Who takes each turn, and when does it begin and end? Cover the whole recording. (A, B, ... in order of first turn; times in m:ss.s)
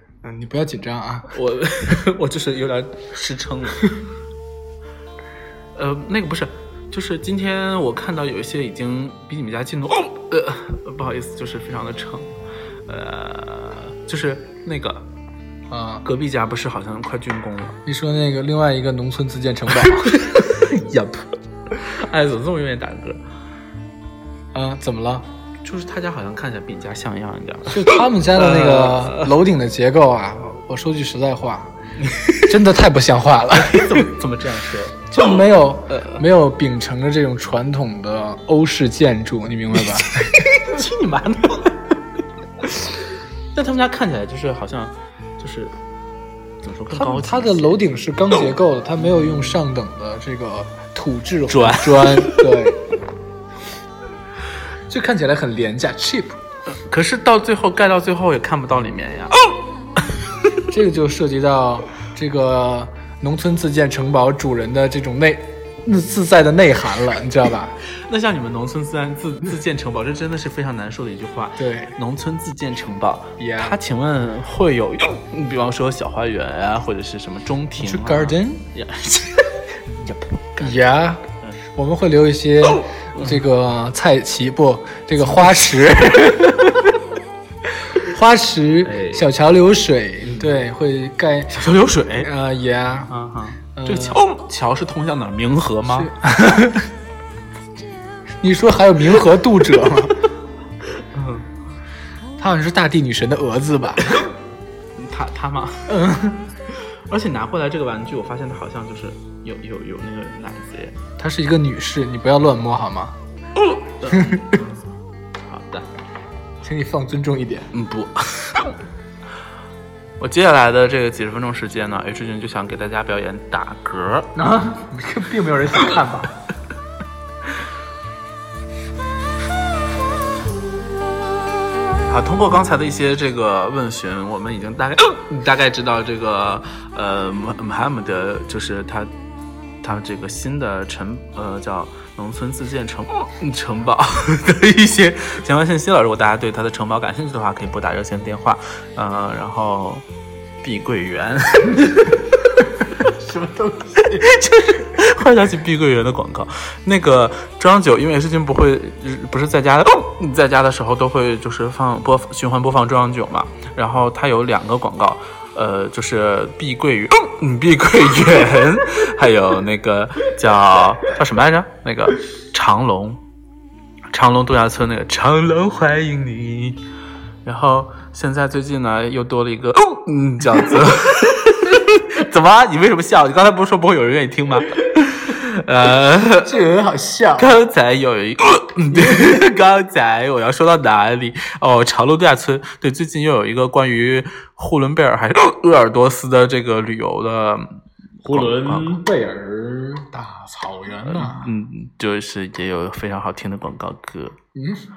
0:00.2-0:01.3 A
0:01.3-0:04.0 B
0:05.7-0:12.3 B
0:12.9-0:15.0 B
0:15.7-0:16.0 A
0:16.0-0:17.8 B
0:17.8-0:20.1 A
0:19.8-0:23.2 B
0:24.5-0:25.2 A
0:25.6-0:29.3 B
0:27.7-0:31.7 A
0:32.0-0:32.5 B
0:32.4-0:34.0 A
0:33.6-0:36.2 B
0:35.1-0:40.3 A
0:39.7-0:41.9 B
0:42.6-0:42.9 B
0:43.5-0:45.7 B
0:46.6-0:47.8 B
0:46.9-0:52.8 A
0:49.0-0:49.6 B
0:51.5-0:52.4 B
0:54.9-0:56.4 A
0:56.8-0:59.4 B
1:00.7-1:07.8 A
1:07.9-1:20.8 B
1:11.6-1:11.9 A
1:13.4-1:13.8 A
1:17.8-1:18.6 A
1:20.6-1:21.2 A
1:21.7-1:26.6 A
1:22.9-1:23.4 B
1:25.2-1:26.8 B
1:27.9-1:31.6 A
1:28.8-1:29.3 B
1:30.2-1:30.6 B
1:31.5-1:32.3 B
1:32.2-1:33.1 A
1:33.1-1:36.1 B
1:33.8-1:34.2 A
1:35.9-1:36.8 A
1:38.4-1:40.2 A
1:41.0-1:41.5 B
1:42.4-1:44.3 A
1:45.0-1:46.0 B
1:45.9-1:46.4 A
1:46.7-1:51.0 B
1:51.2-1:53.1 A
1:53.6-1:54.6 B
1:54.1-1:54.6 A
1:55.4-1:55.9 B
1:56.6-1:57.7 A
1:57.7-1:58.8 B
2:00.2-2:04.3 B
2:04.3-2:06.3 A
2:12.1-2:19.1 B
2:19.8-2:30.0 B
2:30.6-2:32.7 B
2:33.1-2:34.2 A
2:34.0-2:53.2 B
2:54.1-2:56.8 B
2:57.4-3:06.5 B
3:06.4-3:07.6 A
3:07.4-3:17.7 B
3:08.9-3:09.3 A
3:18.2-3:19.0 B
3:18.2-3:21.5 A
3:21.0-3:24.3 B
3:24.5-3:24.8 A